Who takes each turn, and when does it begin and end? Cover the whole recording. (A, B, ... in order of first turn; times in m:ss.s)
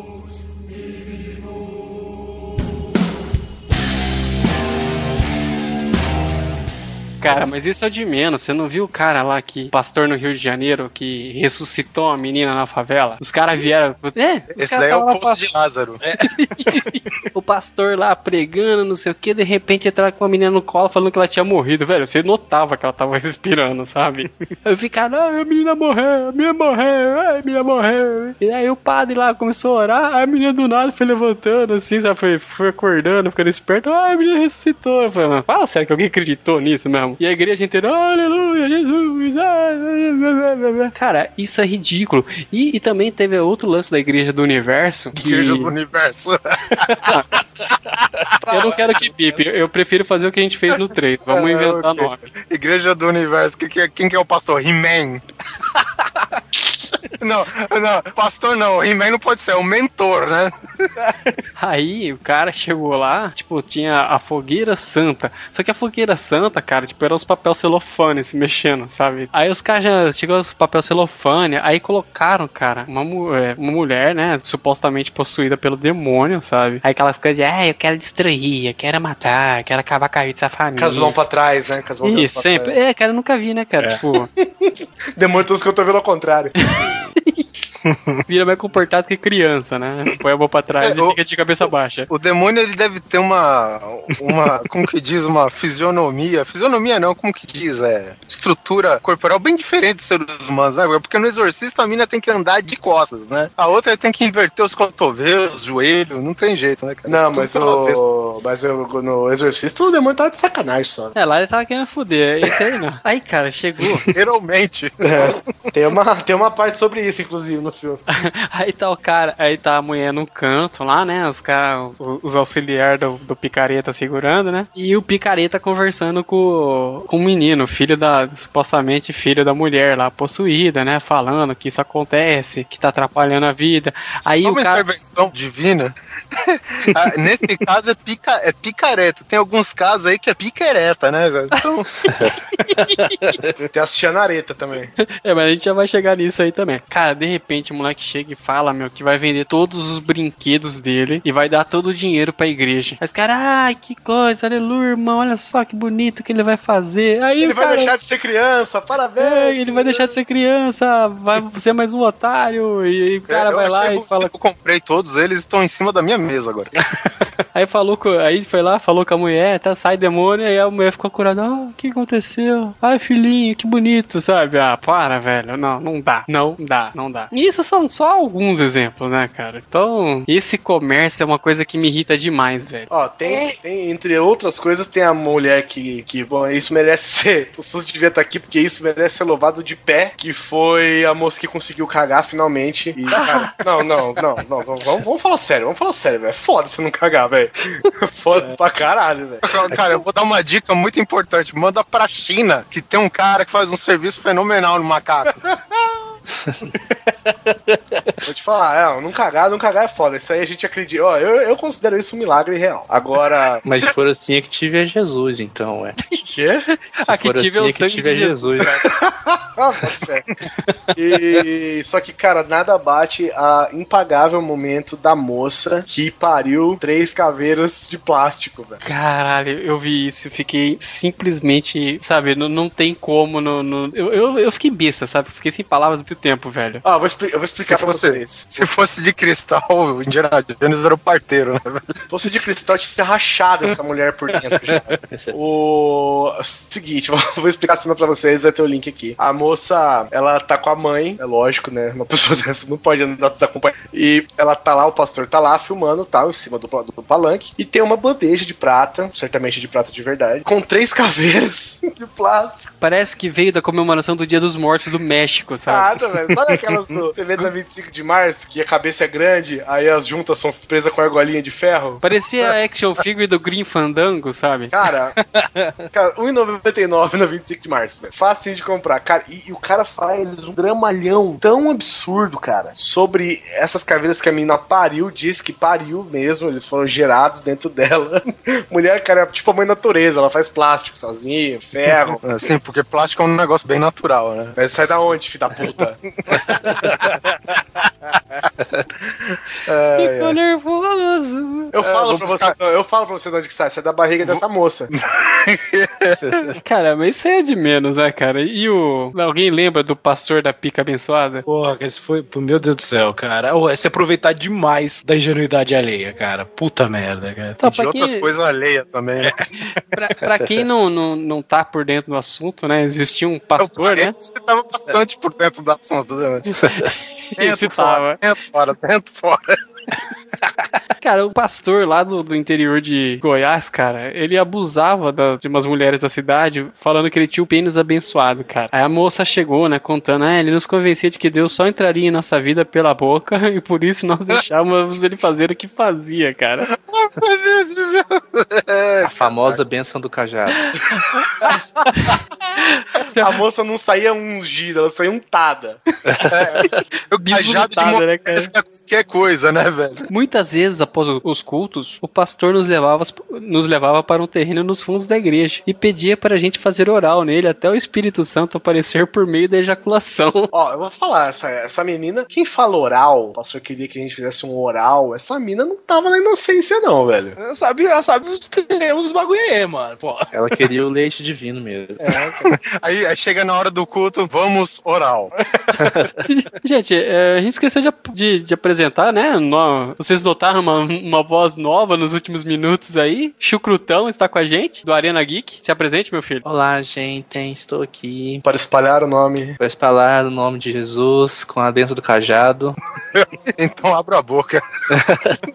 0:07.2-0:15.5 A
0:14.6-0:16.0 B
0:16.0-0:16.8 C
0:16.7-0:45.7 A
0:45.1-0:47.0 B
0:46.9-0:47.1 C
0:48.5-0:52.2 A
0:51.3-0:55.2 B
0:57.2-1:00.6 B
1:01.0-1:01.3 C
1:01.6-1:21.2 A
1:20.8-1:22.8 D
1:22.0-1:24.3 A
1:24.4-1:26.5 D
1:26.6-1:27.5 A
1:27.8-1:28.2 C
1:28.3-1:32.1 A
1:30.8-1:31.2 B
1:32.1-1:48.1 B
1:47.1-1:51.1 D
1:51.2-1:54.1 A
1:54.1-1:55.4 B
1:55.0-1:58.0 D
1:58.1-2:14.9 A
2:14.4-2:21.9 B
2:22.7-2:23.2 A
2:22.8-2:23.0 C
2:23.7-2:24.9 D
2:25.0-2:37.9 A
2:37.4-2:40.1 D
2:39.2-2:44.3 A
2:43.3-2:46.7 B
2:47.5-3:02.9 A
3:02.9-3:19.4 D
3:19.4-3:25.5 B
3:28.2-3:33.6 D
3:33.6-3:36.0 E
3:36.3-3:36.6 D
3:37.0-3:38.8 A
3:37.1-3:38.7 E
3:38.8-3:40.3 D
3:41.0-3:48.8 D
3:48.8-3:56.8 A
3:56.8-3:58.6 D
3:57.6-4:01.9 B
4:02.1-4:22.6 D
4:22.8-4:26.0 A
4:25.7-4:32.0 D
4:32.0-4:34.7 A
4:34.7-4:35.2 D
4:35.3-4:35.7 C
4:35.9-4:52.2 D
4:52.2-4:55.0 B
4:54.6-4:56.0 D
4:56.3-4:57.2 B
4:59.2-5:00.4 B
5:00.0-5:01.7 A
5:01.7-5:04.9 D
5:01.8-5:02.6 B
5:05.0-5:06.4 B
5:06.6-5:11.4 A
5:11.4-5:17.6 C
5:17.6-5:18.3 A
5:17.6-5:19.3 B
5:19.2-5:19.5 C
5:19.6-5:24.2 A
5:23.6-5:26.5 B
5:27.4-5:28.2 A
5:27.4-5:29.6 B
5:31.0-5:46.7 A
5:46.7-5:49.6 B
5:49.0-5:50.6 E
5:51.0-5:51.2 A
5:52.0-5:53.4 A
5:53.2-5:55.8 D
5:56.2-5:56.6 B
5:57.1-6:00.1 B
5:57.3-5:58.5 A
6:00.1-6:10.5 A
6:10.5-6:17.4 D
6:17.4-6:20.3 C
6:20.3-6:22.1 E
6:22.0-6:22.4 C
6:22.4-6:25.3 B
6:26.3-6:36.4 A
6:36.4-6:38.4 E
6:38.4-6:39.6 D
6:39.6-6:42.8 E
6:43.1-6:44.6 B
6:45.0-6:45.3 E